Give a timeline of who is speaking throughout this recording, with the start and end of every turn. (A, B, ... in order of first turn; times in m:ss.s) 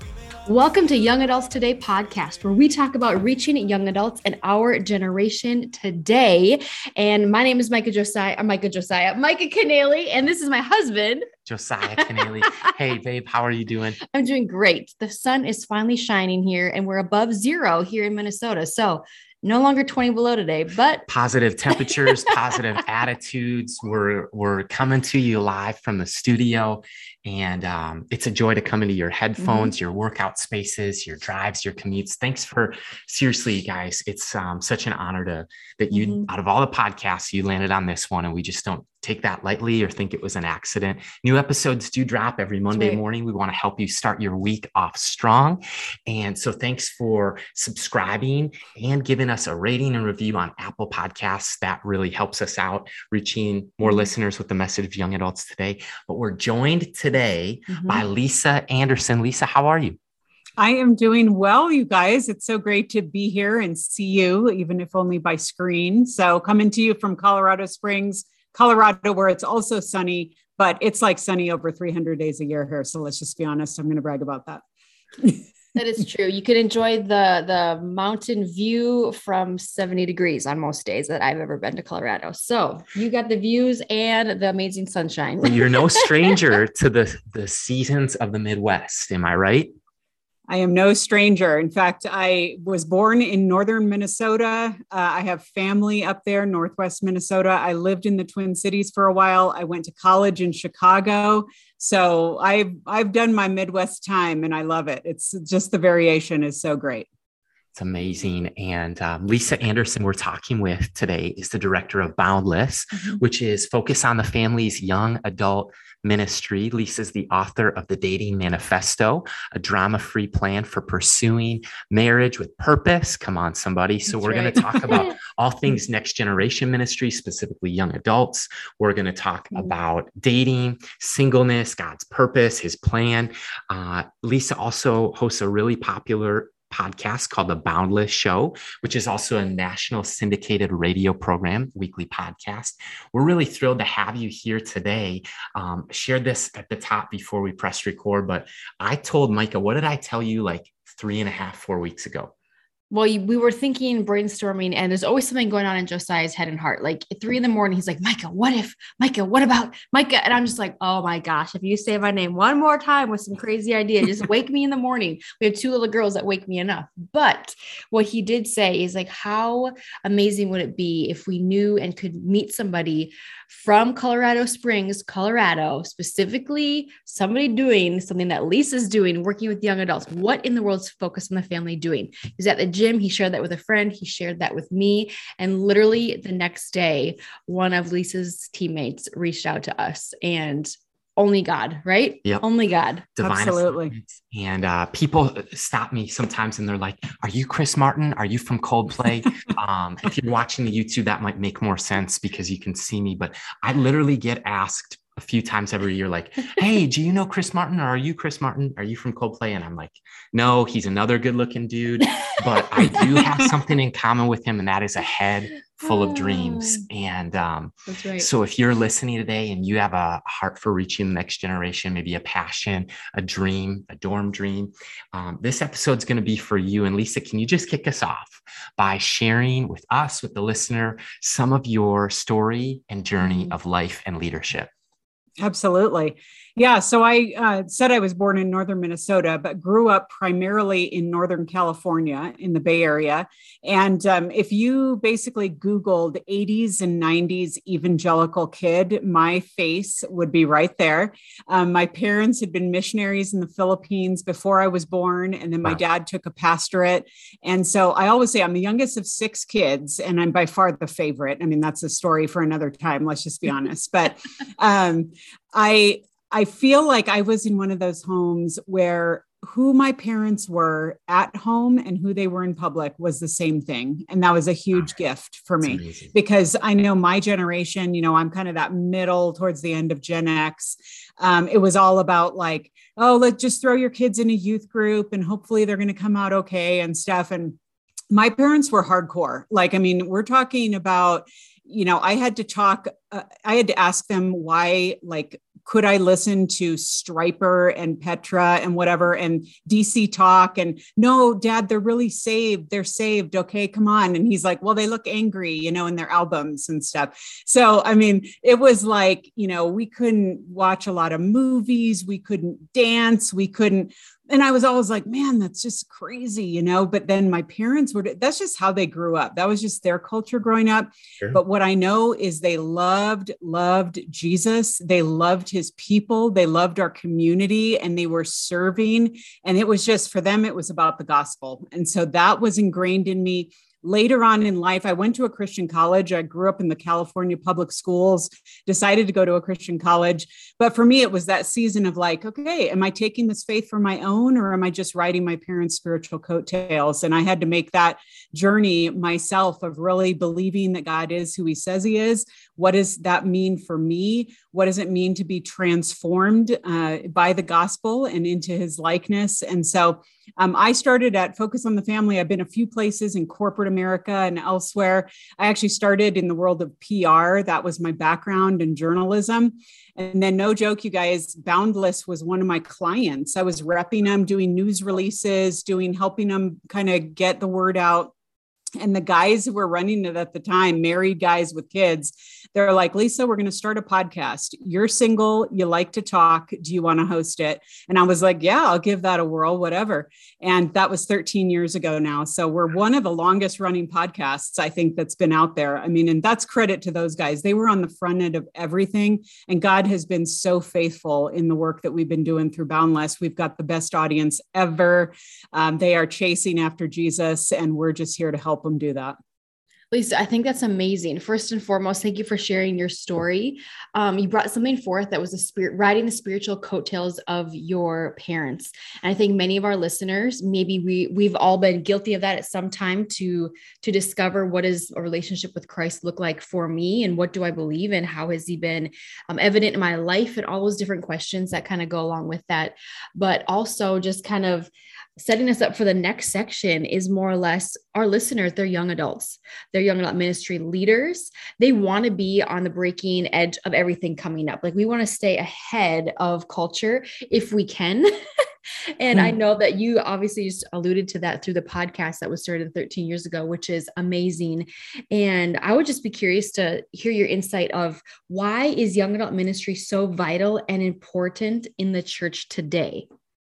0:00.4-0:11.3 A
0:11.4-0:14.0 B
0:14.1-0:21.0 A
0:21.1-1:00.0 B
0:21.8-0:22.4 A
0:29.4-0:29.7 A
0:35.9-0:36.3 A
0:57.7-0:58.0 A
1:00.6-1:14.6 C
1:15.7-1:26.3 A
1:25.4-1:29.7 B
1:30.5-1:47.1 C
1:47.7-2:32.3 B
2:04.2-2:05.1 A
2:32.9-3:13.1 A
3:13.2-3:54.7 B
3:13.2-3:13.9 C
3:35.8-3:36.8 A
3:37.9-3:38.3 A
3:55.4-4:47.6 C
4:35.6-4:36.1 B
4:48.1-6:18.1 C
6:18.8-6:49.2 C
6:49.9-7:28.1 A
7:29.0-7:43.1 A